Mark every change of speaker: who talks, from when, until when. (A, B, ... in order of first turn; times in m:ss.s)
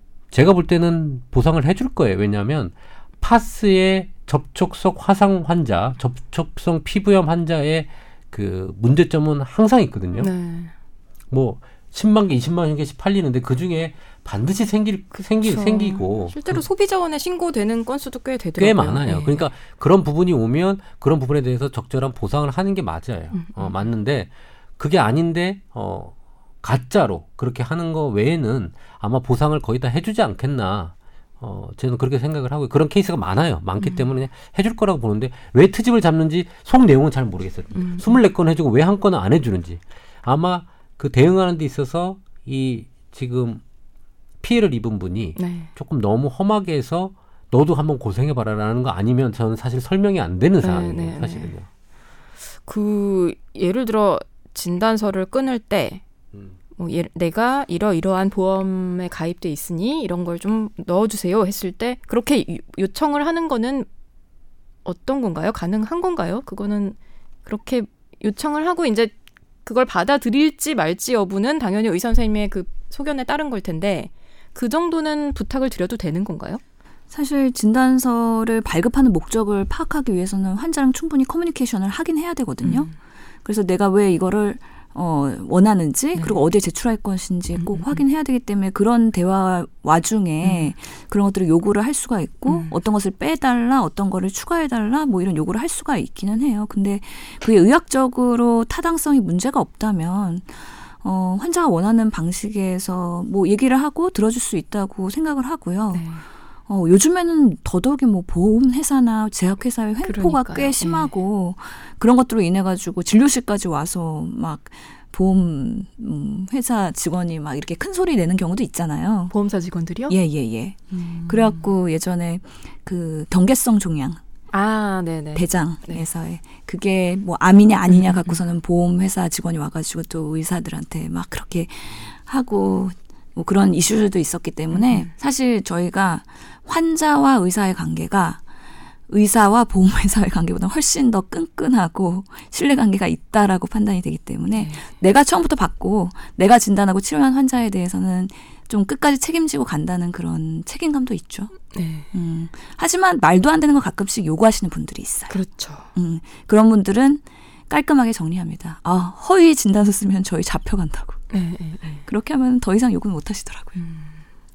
0:00.3-0:10.3 A
0:10.2-0:10.7 B
0:11.3-0:16.6 A
0:15.4-0:19.4 B
0:18.6-0:43.6 A
0:23.3-0:23.9 B
0:33.8-0:34.1 B
0:37.8-0:38.2 B
0:44.4-0:51.7 A
0:45.4-0:45.7 B
0:50.6-0:51.5 B
0:52.6-0:56.0 B
0:56.8-1:03.9 B
1:04.8-1:09.1 B
1:09.6-1:16.6 B
1:17.1-1:22.9 C
1:22.6-1:22.9 B
1:23.4-1:46.1 C
1:26.2-1:26.4 B
1:27.6-1:28.0 B
1:30.4-1:30.7 B
1:32.5-1:32.8 B
1:45.9-1:46.3 B
1:46.7-1:59.3 C
1:50.0-1:51.1 B
1:59.3-2:00.2 B
2:00.1-2:04.2 C
2:00.9-2:01.7 B
2:04.5-2:06.0 B
2:05.4-2:18.4 C
2:07.9-2:08.4 B
2:14.7-2:15.1 B
2:19.1-2:31.6 C
2:24.6-2:24.9 B
2:31.7-2:32.1 B
2:32.1-2:35.4 C
2:35.3-2:35.9 B
2:35.9-2:41.2 C
2:41.3-2:42.0 B
2:42.1-2:43.8 C
2:43.8-2:44.1 B